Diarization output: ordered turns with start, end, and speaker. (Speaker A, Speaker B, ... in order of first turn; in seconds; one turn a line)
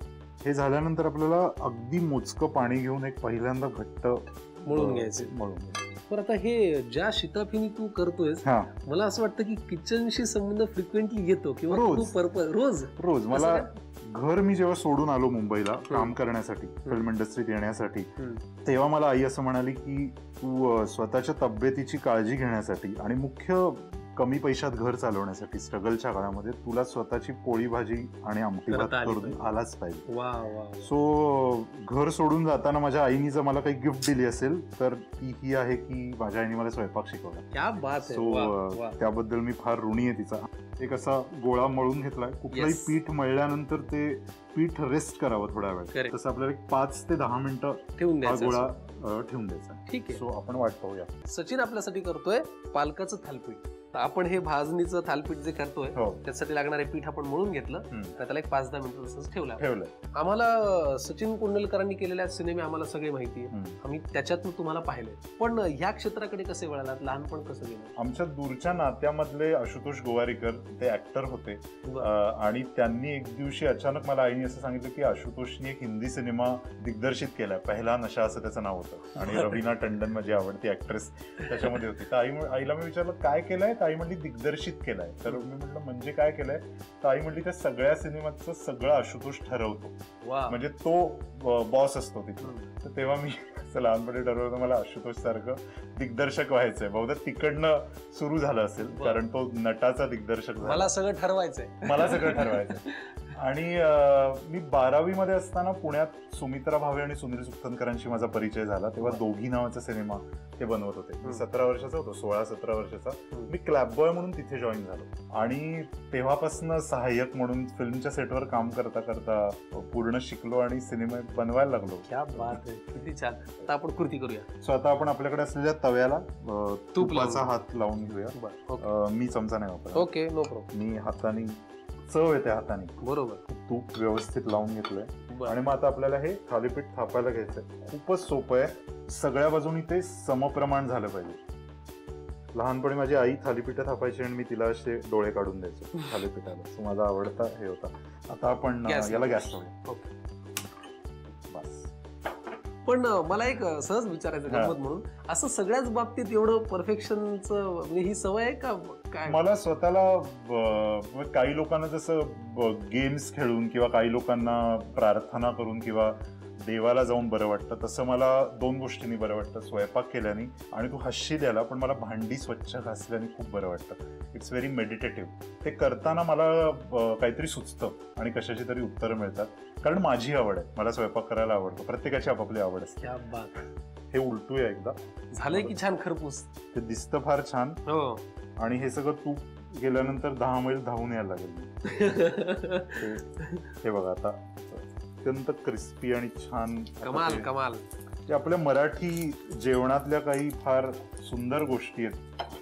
Speaker A: 0.4-5.9
Speaker B: 4.7-5.3
Speaker B: 6.1-13.7
Speaker A: 8.4-8.7
Speaker A: 11.7-12.1
Speaker A: 13.0-18.1
Speaker B: 15.9-16.1
Speaker A: 18.6-30.1
Speaker B: 28.7-29.6
Speaker B: 30.1-30.9
Speaker A: 30.8-37.5
Speaker B: 37.5-39.0
Speaker A: 38.1-51.1
Speaker B: 42.5-42.9
Speaker B: 48.0-48.7
Speaker B: 49.9-50.2
Speaker B: 51.3-67.9
Speaker A: 56.0-56.2
Speaker A: 57.9-58.1
Speaker A: 59.6-59.9
Speaker A: 63.5-63.8
Speaker A: 68.0-100.9
Speaker B: 90.2-90.6
Speaker B: 98.9-99.2
Speaker B: 100.6-102.8
Speaker A: 101.8-122.6
Speaker B: 122.1-124.5
Speaker A: 124.6-130.1
Speaker B: 127.0-127.5
Speaker B: 128.3-128.9
Speaker B: 129.9-130.7
Speaker A: 130.7-132.9
Speaker B: 133.0-133.4
Speaker A: 133.5-141.4
Speaker B: 135.3-135.6
Speaker A: 142.5-149.7
Speaker B: 148.8-150.1
Speaker A: 151.5-151.9
Speaker B: 152.9-159.4
Speaker A: 154.5-154.8
Speaker A: 159.2-183.0
Speaker B: 183.0-183.6
Speaker A: 184.1-185.8
Speaker B: 185.3-186.5
Speaker A: 186.7-187.8
Speaker B: 187.9-188.2
Speaker A: 188.6-192.1
Speaker B: 191.9-193.0
Speaker A: 193.0-197.5
Speaker B: 197.0-197.8
Speaker A: 198.3-202.2